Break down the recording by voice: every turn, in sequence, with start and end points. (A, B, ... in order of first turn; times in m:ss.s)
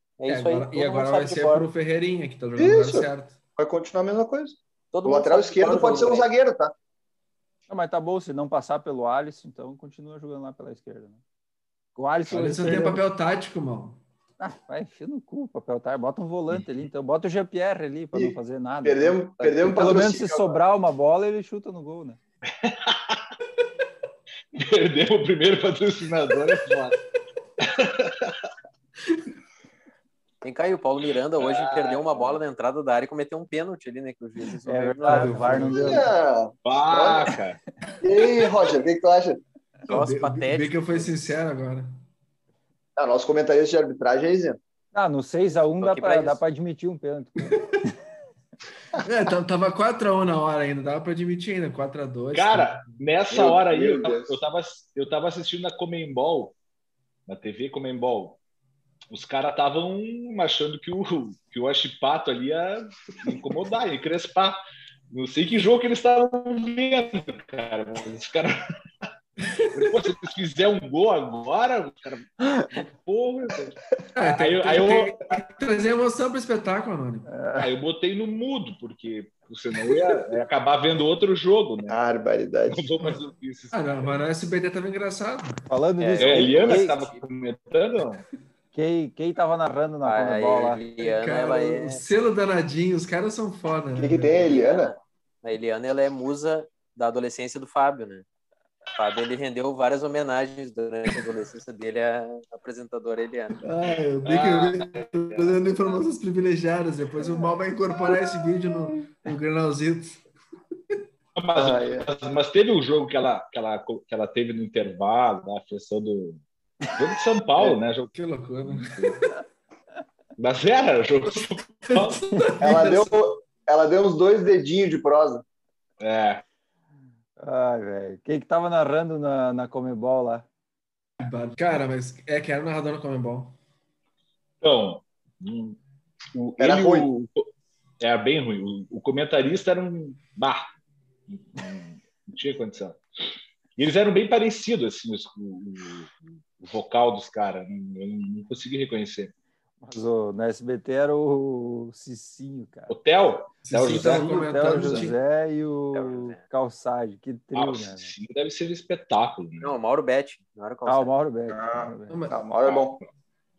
0:00.2-0:01.7 A
0:00.3-0:03.4 B
0:02.6-0:06.7 C
0:04.9-0:06.3 A
0:07.7-0:11.2 D
0:12.0-0:13.0 D
0:12.3-0:14.0 B
0:14.4-0:22.2 D
0:18.1-0:20.6 C
0:22.6-0:23.2 E
0:24.5-0:27.0 E
0:27.6-0:28.4 E
0:30.4-0:35.8 A
0:31.4-0:32.4 E
0:34.6-0:36.1 D
0:35.1-0:36.0 B
0:35.7-0:37.3 C
0:36.6-0:37.6 E
0:38.0-0:39.4 C
0:39.9-0:42.0 B
0:39.9-0:41.1 A
0:43.0-0:44.6 C
0:44.9-0:47.9 D
0:45.8-0:46.4 A
0:48.9-0:52.8 B
0:52.3-0:56.5 E
0:53.3-0:54.4 C
0:57.3-0:58.4 E
0:59.1-1:04.6 E
1:05.1-1:08.6 E
1:09.5-1:09.9 B
1:09.7-1:15.4 E
1:14.1-1:17.3 B
1:17.3-1:17.7 D
1:17.6-1:22.0 E
1:21.9-1:22.9 C
1:22.7-1:24.2 E
1:23.7-1:25.6 B
1:25.7-1:26.9 D
1:26.0-1:27.2 A
1:26.2-1:28.2 E
1:28.7-1:30.8 D
1:30.0-1:32.0 A
1:31.0-1:34.5 B
1:34.0-1:34.9 C
1:34.4-1:38.2 A
1:38.9-1:43.6 A
1:43.6-1:50.2 B
1:44.2-1:45.6 E
1:51.4-1:58.1 E
1:51.5-1:52.1 C
1:58.1-1:59.3 B
1:58.6-1:59.2 E
2:00.4-2:02.2 E
2:01.9-2:03.1 B
2:02.6-2:05.4 C
2:06.0-2:06.4 E
2:07.4-2:10.4 D
2:11.2-2:13.6 B
2:14.6-2:15.8 E
2:16.3-2:17.4 E
2:16.6-2:17.1 C
2:18.0-2:20.7 E
2:21.3-2:23.0 E
2:23.8-2:29.3 E
2:29.8-2:32.9 D
2:32.9-2:35.1 E
2:33.6-2:35.2 B
2:33.8-2:38.1 D
2:35.9-2:36.4 A
2:37.5-2:39.7 E
2:39.6-2:41.1 A
2:40.8-2:42.3 D
2:41.5-2:43.0 C
2:42.1-2:42.4 B
2:42.6-2:43.1 E